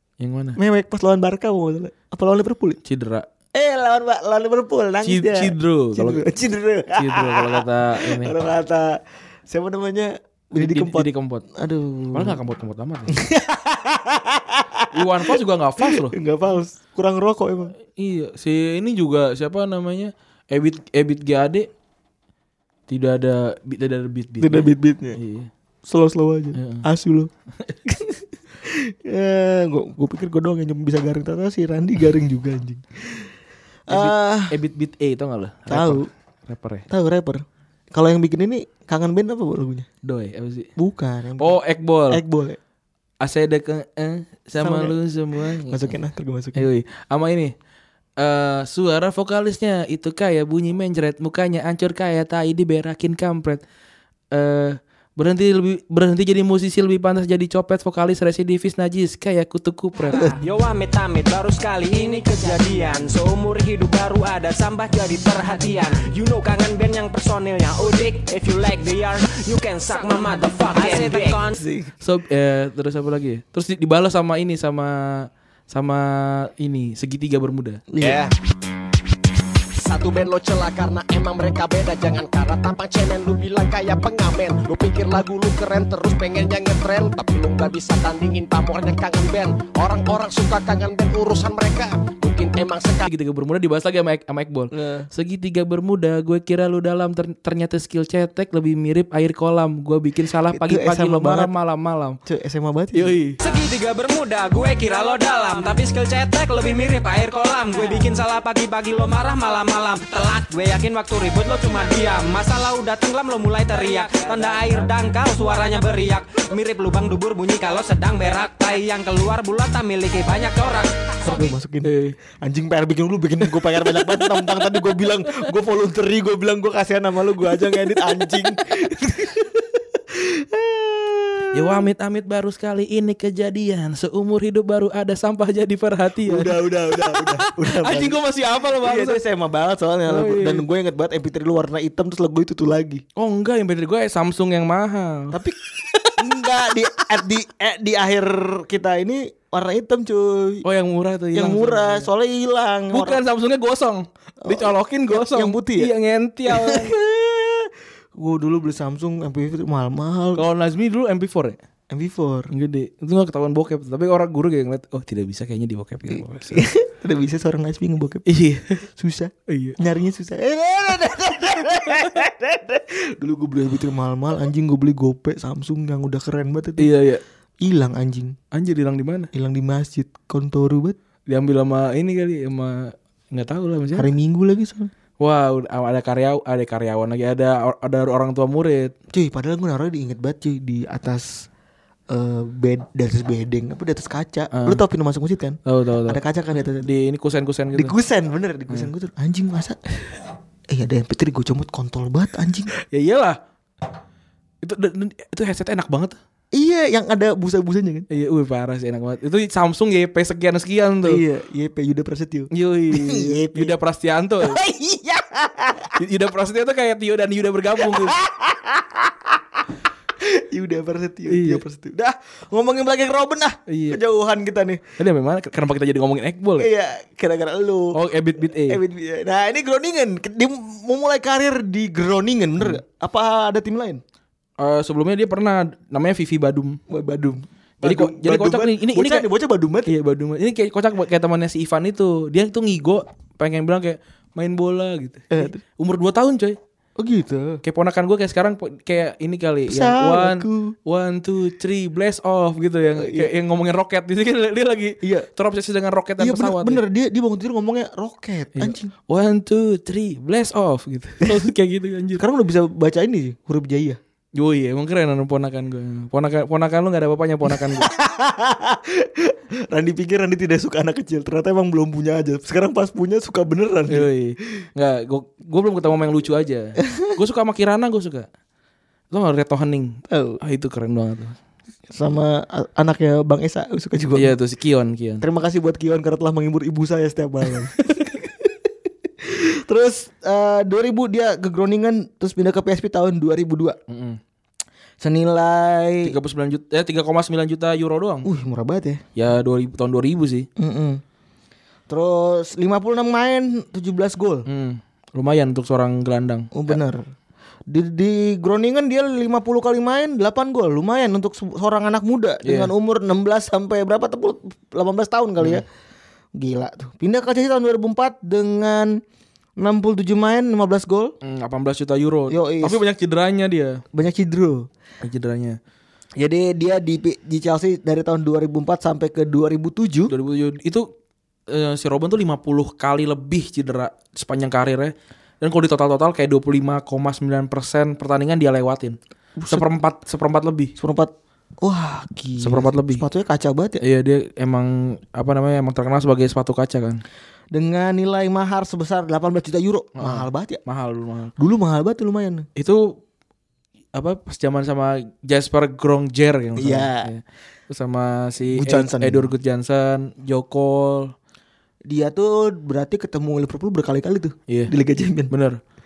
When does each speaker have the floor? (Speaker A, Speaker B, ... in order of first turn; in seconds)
Speaker A: 0.2-0.6, 2.8-3.3, 5.0-6.2, 7.0-8.3, 10.6-11.4, 12.1-13.2, 14.9-16.1, 17.9-21.7, 22.9-25.5, 26.6-26.9, 33.9-36.9, 40.0-40.7, 41.4-42.2, 43.2-45.9, 46.5-47.5, 48.2-53.6, 54.3-60.4, 72.0-77.8, 93.1-102.2, 102.9-103.4, 121.8-122.2, 123.5-125.4, 127.8-128.3, 131.5-139.2, 140.1-140.7, 143.2-145.4, 145.9-146.2, 150.6-152.1, 152.9-156.9, 160.4-161.6, 162.5-166.7, 168.3-168.8, 169.5-169.8, 176.8-177.2, 178.5-179.3, 181.3-184.1, 185.2-188.9, 194.5-194.8, 195.7-196.2, 196.8-197.9, 202.9-203.4, 204.6-206.2, 208.1-211.2, 212.5-214.6, 216.0-218.2, 221.3-221.6, 223.7-224.0, 225.0-226.7, 227.9-228.8, 234.6-236.8, 237.8-239.3, 239.9-246.6, 247.6-256.8, 258.6-262.2, 264.4-267.9, 273.9-278.3, 279.1-281.4, 284.1-285.2, 293.9-294.2, 296.0-298.3, 299.2-300.5, 304.5-306.8, 312.4-312.7, 321.2-323.8, 325.0-325.6, 330.1-330.9, 331.5-339.0, 339.5-340.7, 342.4-343.0, 343.8-347.0, 350.0-351.3, 352.6-353.0, 353.9-361.1, 365.3-365.6
Speaker B: 0.6-2.8, 3.5-12.4, 13.1-17.8, 24.4-25.2, 25.9-27.3, 27.9-33.3, 33.9-34.6, 35.7-36.1, 36.9-39.9, 40.8-41.6, 42.1-42.6, 44.6-45.0, 45.6-46.6, 71.5-71.9, 77.9-78.3, 94.7-95.1, 100.5-101.5, 102.3-103.2, 121.2-131.9, 136.2-138.2, 138.8-143.1, 146.1-150.7, 151.3-153.2, 154.4-155.9, 156.5-160.4, 161.9-162.5, 166.1-168.3, 168.8-176.9, 177.6-178.4, 179.3-181.0, 183.9-184.9, 189.1-191.5, 192.1-196.9, 197.7-199.8, 200.7-202.7, 206.5-208.1, 211.0-213.7, 214.4-216.0, 217.8-219.6, 220.2-224.8, 226.6-234.0, 236.9-239.9, 245.3-245.6, 247.0-247.6, 249.7-250.8, 253.0-253.3, 255.0-255.3, 256.2-258.9, 262.2-264.0, 267.5-274.1, 280.1-280.4, 281.9-284.4, 285.2-288.6, 289.2-293.8, 295.0-296.1, 298.2-299.0, 300.6-301.0, 301.9-304.5, 306.5-307.0, 307.7-315.6, 316.4-319.0, 319.6-321.1, 322.3-322.8, 323.9-324.7, 326.2-330.1, 339.4-339.7, 340.8-343.8, 347.5-350.6, 351.4-352.5, 356.6-357.1, 358.5-359.3, 361.9-365.3
Speaker C: 60.2-71.6, 103.4-121.3
Speaker D: 70.8-71.3, 78.0-78.3, 79.8-93.1